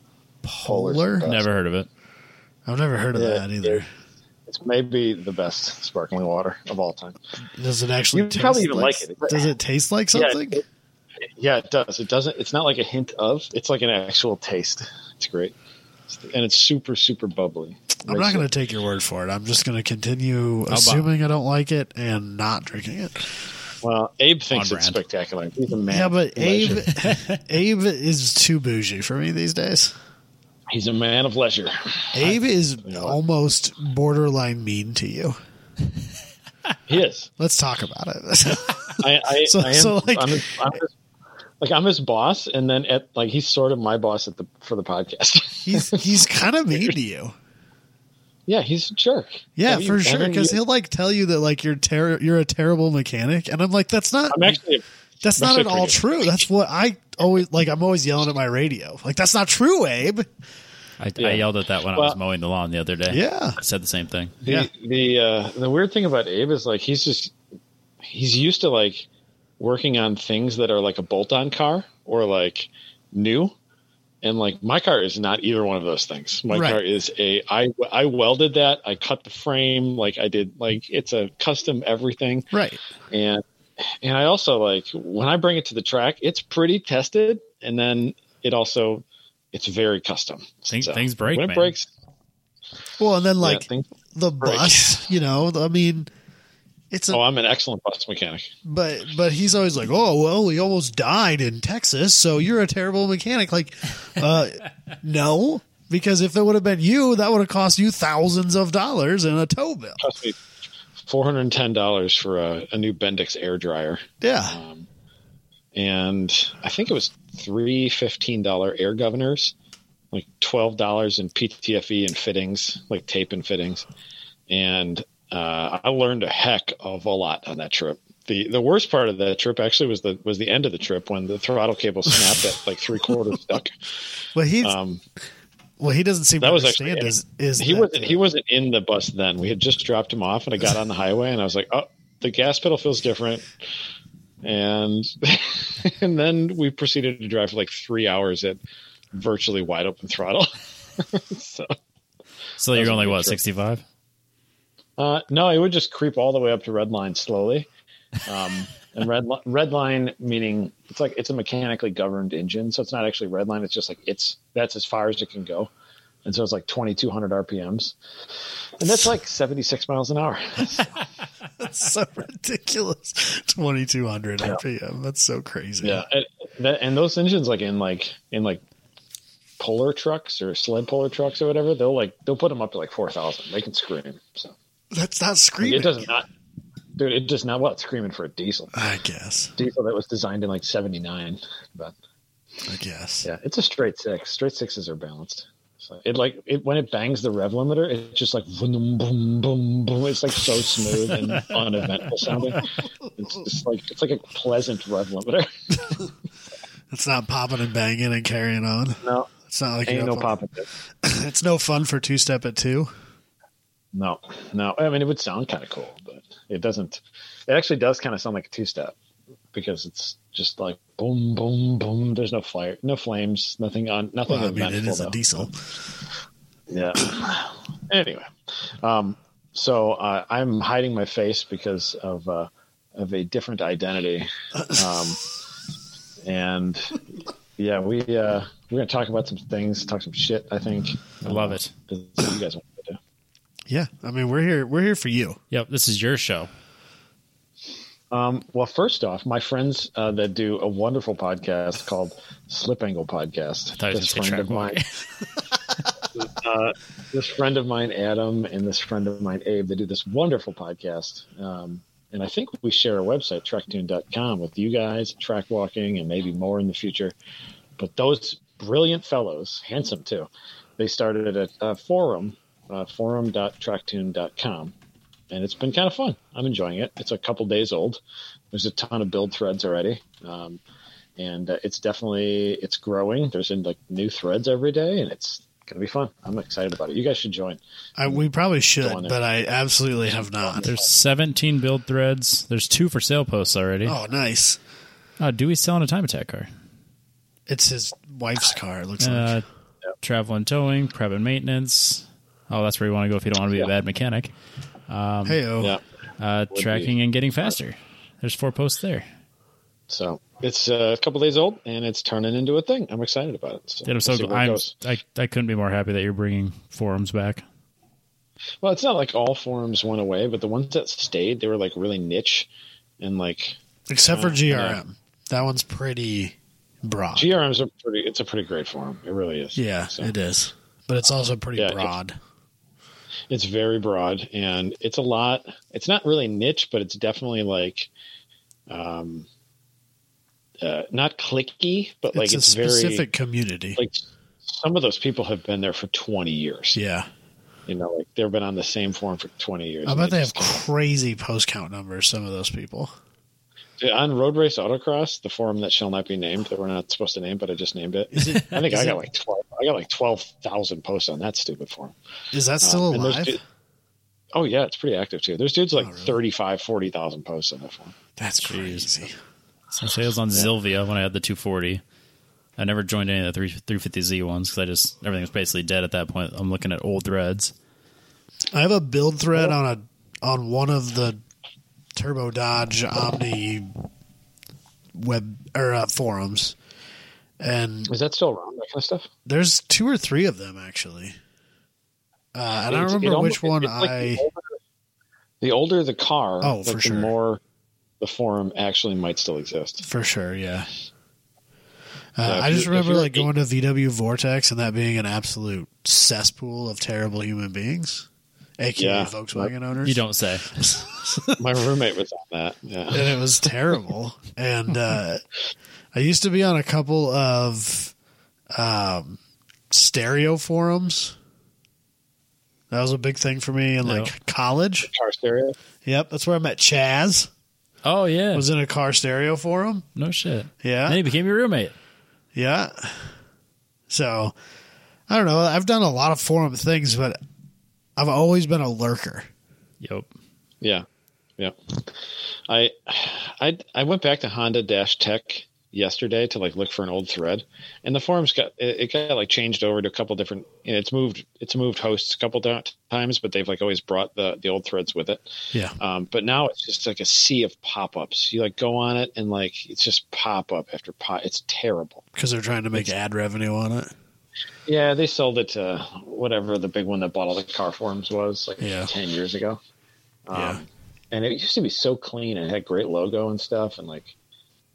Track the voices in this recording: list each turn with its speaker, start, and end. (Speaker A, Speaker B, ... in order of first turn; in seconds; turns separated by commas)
Speaker A: 0.5-1.3, Speaker B: 0.6-1.5, Speaker C: 1.2-1.9, Speaker A: 2.7-3.9, Speaker B: 3.1-3.8, Speaker B: 4.5-7.2, Speaker A: 7.5-10.6, Speaker B: 8.1-9.5, Speaker B: 10.1-10.6, Speaker B: 11.4-15.6, Speaker B: 16.1-18.5, Speaker A: 18.1-23.3, Speaker C: 20.7-21.1, Speaker B: 23.8-26.9, Speaker C: 24.5-25.0, Speaker A: 25.9-29.9, Speaker B: 30.7-33.2, Speaker A: 32.1-35.4, Speaker B: 36.9-37.3, Speaker A: 37.4-40.5, Speaker B: 39.0-40.9, Speaker B: 41.6-46.9, Speaker A: 45.7-47.4, Speaker B: 48.5-50.6, Speaker A: 49.6-54.6, Speaker B: 54.3-54.8, Speaker A: 55.2-60.3, Speaker B: 55.4-56.1, Speaker C: 61.0-64.3, Speaker B: 61.2-62.2, Speaker A: 63.1-63.6, Speaker B: 64.4-67.3, Speaker B: 68.0-69.1, Speaker B: 69.6-73.5, Speaker B: 74.2-82.5, Speaker A: 76.5-76.8, Speaker A: 82.5-82.8, Speaker B: 83.1-91.9, Speaker C: 90.7-91.7, Speaker A: 93.0-96.1, Speaker B: 93.4-93.9, Speaker B: 94.4-95.0, Speaker A: 96.9-97.2, Speaker B: 97.1-98.5, Speaker A: 98.7-110.0, Speaker B: 110.0-110.4, Speaker B: 111.1-114.9, Speaker A: 114.2-114.6, Speaker B: 115.7-119.5, Speaker B: 120.1-123.9, Speaker B: 124.5-133.8, Speaker A: 134.3-134.8, Speaker B: 134.6-135.0, Speaker A: 135.8-138.2, Speaker B: 136.4-143.5, Speaker B: 144.4-148.6, Speaker B: 149.1-151.7, Speaker C: 152.6-153.8, Speaker B: 152.7-153.4, Speaker B: 155.0-157.7, Speaker B: 158.2-165.7, Speaker B: 166.2-168.0, Speaker B: 168.8-170.9, Speaker A: 171.6-176.0, Speaker B: 175.8-178.6, Speaker B: 179.6-184.6, Speaker A: 184.9-186.1, Speaker B: 185.6-186.3, Speaker B: 187.0-188.7, Speaker A: 188.7-189.6, Speaker B: 189.6-191.9, Speaker A: 192.7-193.3, Speaker B: 193.2-206.0, Speaker A: 206.9-210.4, Speaker B: 209.0-209.3, Speaker B: 209.9-210.7, Speaker A: 211.0-212.9, Speaker B: 213.9-218.9, Speaker B: 219.5-225.5, Speaker A: 224.3-225.5, Speaker B: 226.7-228.3, Speaker B: 228.8-235.2, Speaker B: 236.2-243.0, Speaker C: 241.2-241.7, Speaker A: 243.7-245.4, Speaker C: 245.5-246.5, Speaker B: 248.1-254.8, Speaker C: 253.8-254.8, Speaker B: 256.2-267.2, Speaker B: 267.8-274.7, Speaker B: 275.3-280.6, Speaker B: 281.2-288.2, Speaker A: 288.0-290.7, Speaker B: 288.8-289.2, Speaker B: 290.5-290.9, Speaker C: 290.6-294.0, Speaker A: 293.9-294.6, Speaker C: 295.2-296.5, Speaker A: 297.5-299.4, Speaker C: 299.0-299.4, Speaker C: 300.0-304.3, Speaker C: 304.9-305.4, Speaker A: 305.2-305.8, Speaker C: 306.2-309.1, Speaker B: 306.5-306.9, Speaker B: 309.9-314.7, Speaker C: 313.9-317.4, Speaker B: 318.6-322.5, Speaker B: 323.0-324.8, Speaker A: 323.9-327.3, Speaker B: 327.1-330.1, Speaker A: 329.6-332.2, Speaker B: 331.6-331.9, Speaker B: 333.3-337.9, Speaker B: 338.7-339.3, Speaker B: 340.6-343.1, Speaker A: 342.1-343.8, Speaker B: 343.8-346.8, Speaker A: 346.8-347.1, Speaker B: 347.7-350.6, Speaker A: 349.9-352.9, Speaker B: 353.8-361.9, Speaker A: 358.1-359.0, Speaker A: 362.3-363.4, Speaker B: 362.6-363.4, Speaker B: 364.3-367.9, Speaker A: 365.8-366.1, Speaker A: 368.2-369.1, Speaker C: 368.4-369.1, Speaker C: 369.7-371.8, Speaker C: 372.6-377.5, Speaker A: 378.5-381.2, Speaker A: 382.0-383.7, Speaker A: 384.9-386.6, Speaker A: 387.4-387.9, Speaker B: 387.9-389.1, Speaker A: 389.3-391.2, Speaker A: 392.3-394.2, Speaker B: 392.7-394.5, Speaker B: 395.4-397.4, Speaker A: 396.4-397.1, Speaker B: 398.0-399.9, Speaker A: 399.8-400.7, Speaker A: 402.2-408.1, Speaker B: 402.2-403.3, Speaker A: 408.6-411.4, Speaker B: 408.8-409.5, Speaker C: 409.8-410.5, Speaker B: 411.3-413.5, Speaker A: 412.9-415.2, Speaker A: 415.9-417.9, Speaker A: 418.5-421.1, Speaker A: 422.7-424.9, Speaker C: 423.8-424.1, Speaker B: 424.9-425.6, Speaker A: 425.9-427.3, Speaker C: 427.8-428.5, Speaker A: 428.3-429.9, Speaker C: 430.0-431.8, Speaker A: 430.6-431.0, Speaker A: 432.4-433.1, Speaker A: 433.9-434.4, Speaker A: 435.1-437.2, Speaker A: 438.0-439.3, Speaker C: 439.8-440.1, Speaker B: 441.4-441.9, Speaker B: 442.5-462.1, Speaker A: 462.1-463.9, Speaker B: 464.7-469.6, Speaker A: 468.6-468.9, Speaker B: 470.3-474.1, Speaker A: 470.3-470.6